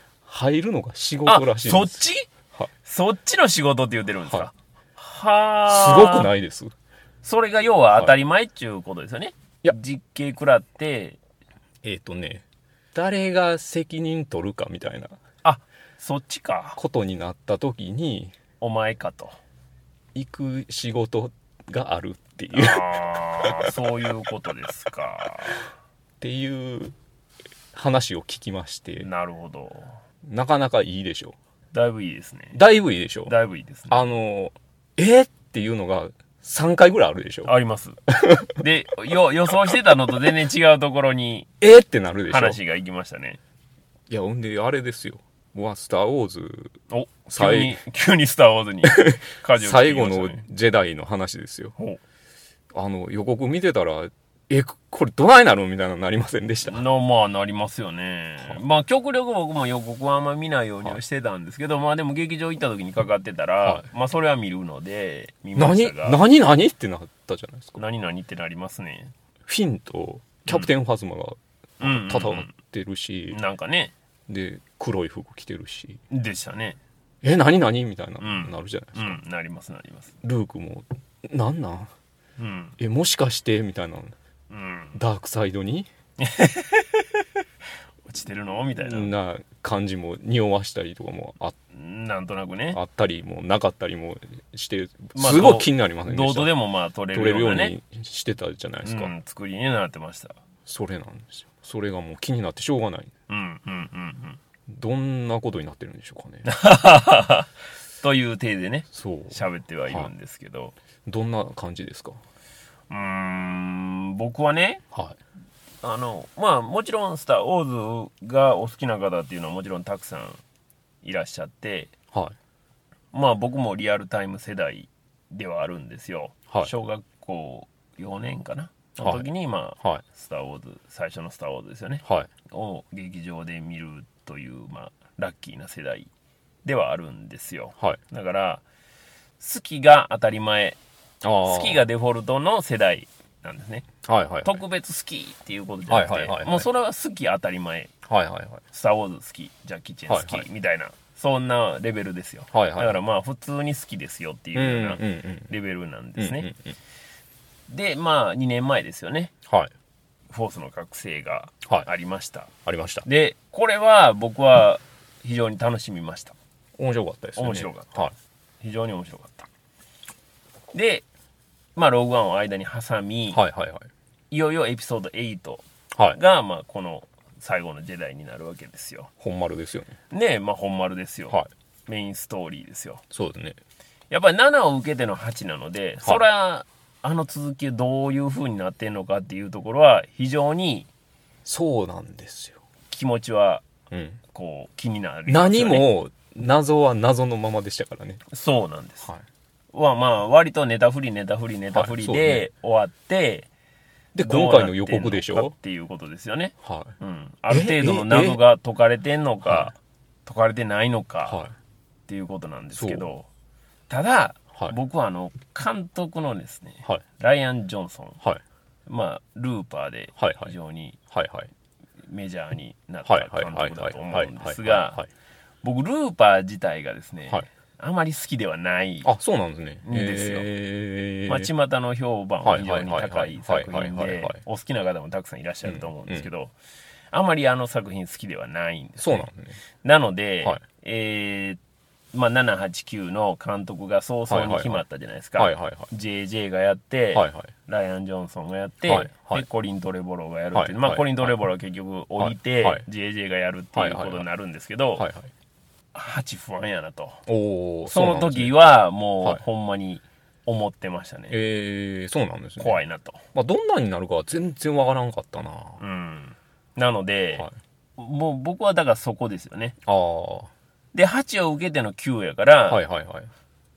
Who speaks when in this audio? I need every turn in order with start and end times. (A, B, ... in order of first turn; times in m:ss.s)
0:00.2-0:02.0 A
0:01.2-0:02.3 B
0:02.8-0:06.3 B
0:05.7-0:06.7 A
0:07.2-0:11.2 B
0:11.8-0:15.1 A
0:15.4-0:16.8 B
0:16.8-0:18.3 A
0:18.6-0:19.4 B
0:20.1-0:23.7 A
0:22.5-0:25.7 B
0:26.2-0:26.9 A
0:27.7-0:29.0 A
0:29.0-0:30.0 B
0:30.2-0:31.3 A
0:31.7-0:32.6 B
0:32.5-0:33.3 A
0:33.3-0:34.0 B
0:33.9-0:37.5 A
0:37.4-0:38.0 B
0:38.1-0:38.6 A
0:38.6-0:41.5 B
0:41.6-0:42.6 A
0:42.3-0:43.4 B
0:44.1-0:46.7 A
0:46.9-0:50.4 B
0:47.3-0:47.8 A
0:48.8-0:51.7 A
0:52.7-0:56.8 A
0:56.6-1:06.2 B
1:05.6-1:07.8 A
1:07.8-1:09.1 B
1:09.4-1:13.4 A
1:11.8-1:12.5 B
1:13.3-1:13.9 B
1:14.3-1:16.0 A
1:16.1-1:16.8 B
1:17.2-1:19.2 A
1:18.2-1:20.1 B
1:20.2-1:21.9 A
1:22.4-1:22.8 B
1:22.8-1:24.1 A
1:24.5-1:25.0 B
1:24.9-1:25.9 A
1:26.2-1:27.1 B
1:28.1-1:29.1 B
1:28.8-1:31.6 A
1:31.7-1:32.8 B
1:32.7-1:36.5 A
1:35.1-1:37.7 B
1:37.1-1:39.1 A
1:38.8-1:40.4 B
1:40.6-1:43.1 A
1:43.3-1:44.4 B
1:44.7-1:46.4 A
1:46.4-1:47.5 B
1:48.0-1:50.7 B
1:48.9-1:50.1 A
1:51.0-1:52.2 A
1:52.9-1:54.8 B
1:54.9-1:55.2 A
1:55.8-2:00.4 B
2:01.0-2:01.9 B
2:03.1-2:16.1 B
2:09.0-2:09.3 A
2:16.6-2:18.6 B
2:19.4-2:20.8 B
2:21.2-2:21.8 A
2:21.4-2:23.9 B
2:24.0-2:24.6 A
2:24.4-2:27.9 B
2:25.9-2:26.7 A
2:28.0-2:28.6 A
2:28.7-2:36.5 B
2:30.1-2:30.5 A
2:32.5-2:33.0 A
2:34.5-2:35.5 A
2:36.2-2:36.7 A
2:37.7-2:39.3 B
2:40.3-2:42.5 B
2:42.6-2:43.0 A
2:43.0-2:46.3 B
2:46.8-2:48.1 A
2:47.4-2:48.1 B
2:48.6-2:49.5 B
2:50.7-2:51.0 B
2:51.8-2:53.4 B
2:53.3-2:53.9 A
2:54.3-2:59.1 B
2:59.2-3:00.0 A
3:00.1-3:03.0 B
3:03.1-3:03.6 A
3:04.1-3:10.9 B
3:11.4-3:12.6 A
3:12.9-3:13.6 B
3:13.9-3:14.2 A
3:14.3-3:15.9 B
3:15.3-3:18.2 A
3:18.3-3:19.1 B
3:19.7-3:23.5 B
3:21.7-3:22.4 A
3:24.1-3:25.5 A
3:24.2-3:31.4 B
3:26.6-3:26.9 A
3:27.5-3:28.4 A
3:29.4-3:29.7 A
3:31.3-3:31.5 A
3:32.1-3:33.2 B
3:32.7-3:33.0 A
3:33.9-3:38.2 B
3:38.9-3:41.0 B
3:40.2-3:40.5 A
3:41.1-3:41.5 A
3:42.1-3:45.0 B
3:43.0-3:45.1 A
3:45.6-3:49.1 B
3:49.0-3:51.5 A
3:49.8-3:50.5 B
3:51.3-3:56.5 B
3:52.4-3:54.4 A
3:55.6-3:56.2 A
3:57.1-3:59.3 B
3:59.0-3:59.6 A
3:59.8-4:01.6 B
4:02.1-4:15.0 B
4:04.3-4:04.8 A
4:05.4-4:05.9 A
4:07.1-4:07.5 A
4:08.9-4:09.4 A
4:10.5-4:11.3 A
4:12.2-4:12.8 A
4:13.7-4:14.2 A
4:15.0-4:15.3 A
4:15.9-4:17.2 B
4:17.3-4:18.5 A
4:17.9-4:21.4 B
4:21.3-4:22.8 A
4:22.6-4:23.2 B
4:23.3-4:25.8 A
4:25.8-4:29.8 B
4:29.8-4:30.5 A
4:30.9-4:32.8 B
4:32.6-4:33.3 A